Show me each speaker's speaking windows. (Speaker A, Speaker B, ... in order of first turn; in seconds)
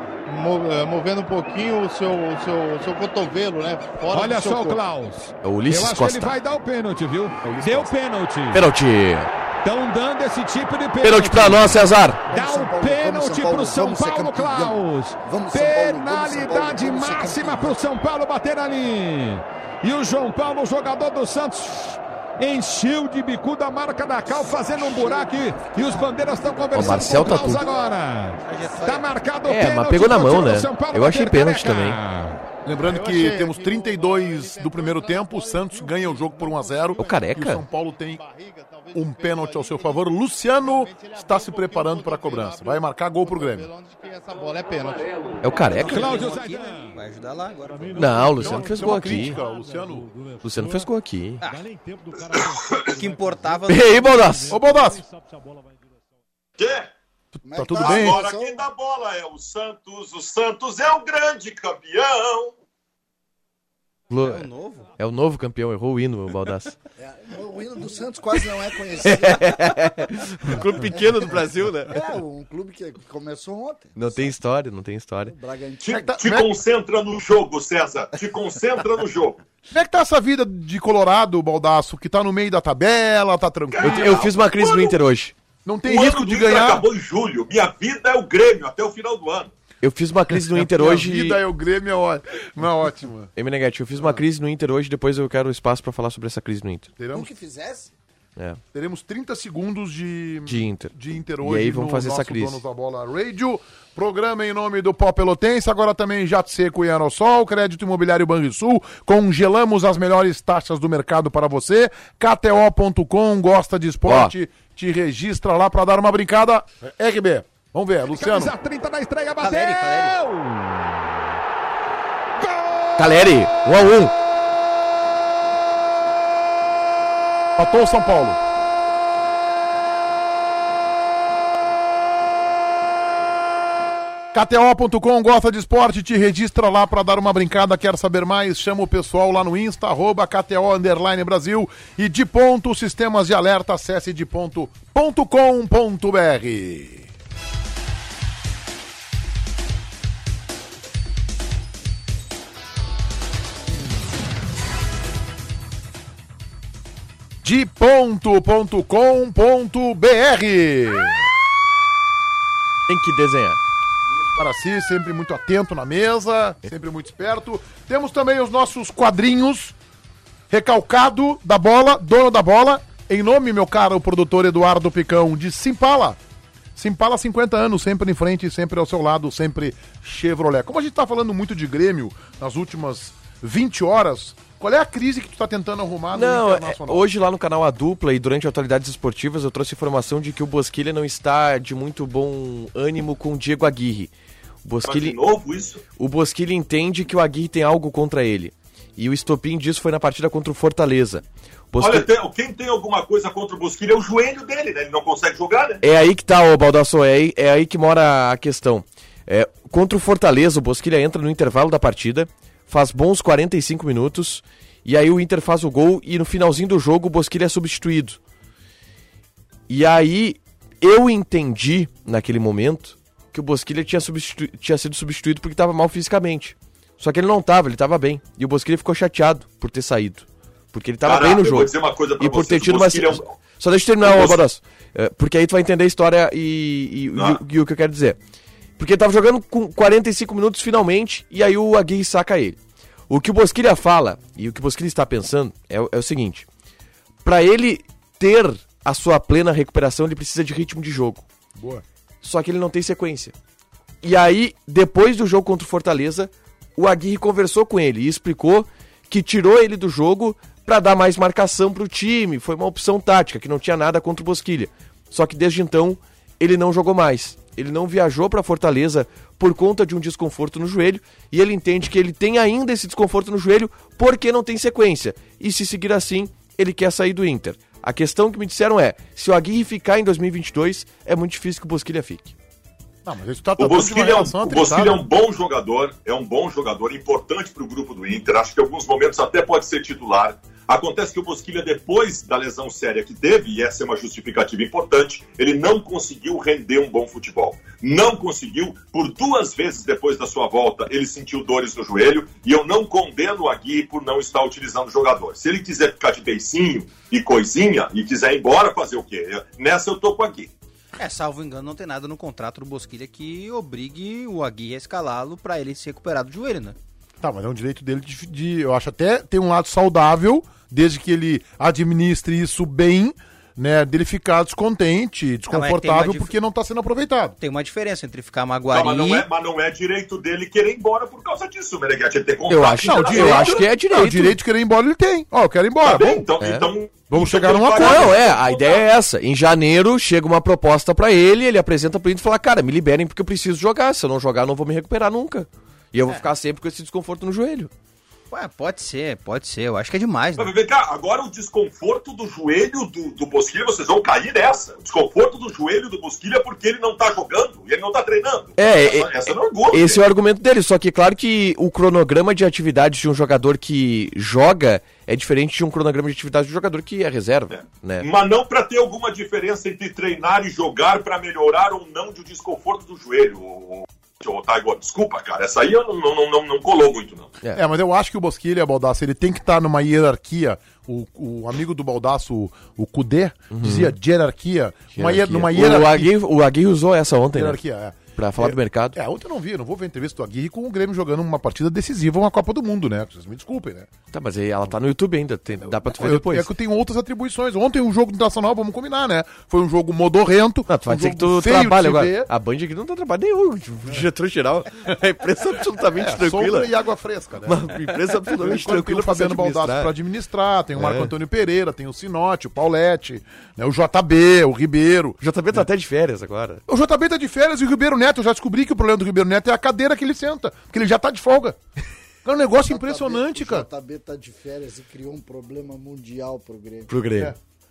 Speaker A: 0.2-4.8, 32.8-46.7
Speaker B: 4.1-8.7, 9.6-32.4, 45.7-46.9, 118.1-121.0
Speaker C: 5.4-6.4, 8.5-9.3, 11.0-12.2, 26.8-27.7, 29.4-32.0, 37.0-37.6, 45.4-46.0, 48.0-49.4, 50.4-51.4, 53.7-54.6, 64.1-64.5, 65.0-66.8, 69.0-72.0, 74.0-75.3, 83.8-85.3, 89.8-91.4, 93.3-96.9, 100.5-102.6, 114.0-114.3, 123.0-124.1, 162.9-163.6, 186.1-194.1, 194.6-195.2, 196.0-202.1, 205.8-218.2, 219.7-238.2, 238.8-242.6, 243.1-246.5, 247.2-251.2, 252.2-253.3, 254.0-282.3, 332.5-334.4, 336.4-336.7, 337.8-347.7, 358.6-359.1, 359.7-368.1, 383.5-383.9, 384.9-387.6, 388.1-389.0, 394.1-396.5, 400.7-406.7, 407.4-409.9, 410.8-411.1, 415.2-416.6, 426.9-427.3
Speaker D: 7.5-7.9, 12.3-18.0, 24.4-27.9, 57.4-58.7, 67.0-74.3, 75.3-76.1, 97.1-97.9, 422.7-427.0
Speaker E: 28.4-29.1, 45.8-48.3, 52.9-54.2, 64.2-64.9, 119.4-120.2, 311.0-316.8, 325.5-326.3, 327.4-329.2, 348.3-350.5
Speaker F: 32.6-38.2, 38.9-43.7, 48.4-50.1, 54.5-55.0, 57.3-58.2, 75.9-76.6, 79.7-84.2, 85.7-86.8, 90.5-93.3, 93.9-94.2, 97.0-97.3, 98.7-118.5, 127.6-128.4, 134.3-147.1, 157.4-161.3, 164.3-169.8, 170.5-176.2, 176.8-187.1, 251.6-251.8, 283.1-285.0, 317.2-327.4, 332.8-336.3, 337.1-338.2, 377.6-386.1, 387.3-393.9, 395.7-402.3, 406.0-407.7, 408.3-415.7, 416.7-421.6, 422.2-423.7
Speaker G: 47.7-56.1
Speaker H: 56.6-56.9, 57.8-62.5, 75.8-79.4, 83.7-85.0, 85.9-89.5, 194.8-195.8, 201.8-205.8, 231.0-233.4, 234.0-234.4, 283.6-310.5, 328.7-333.6, 335.8-338.9, 350.4-360.0, 367.5-377.3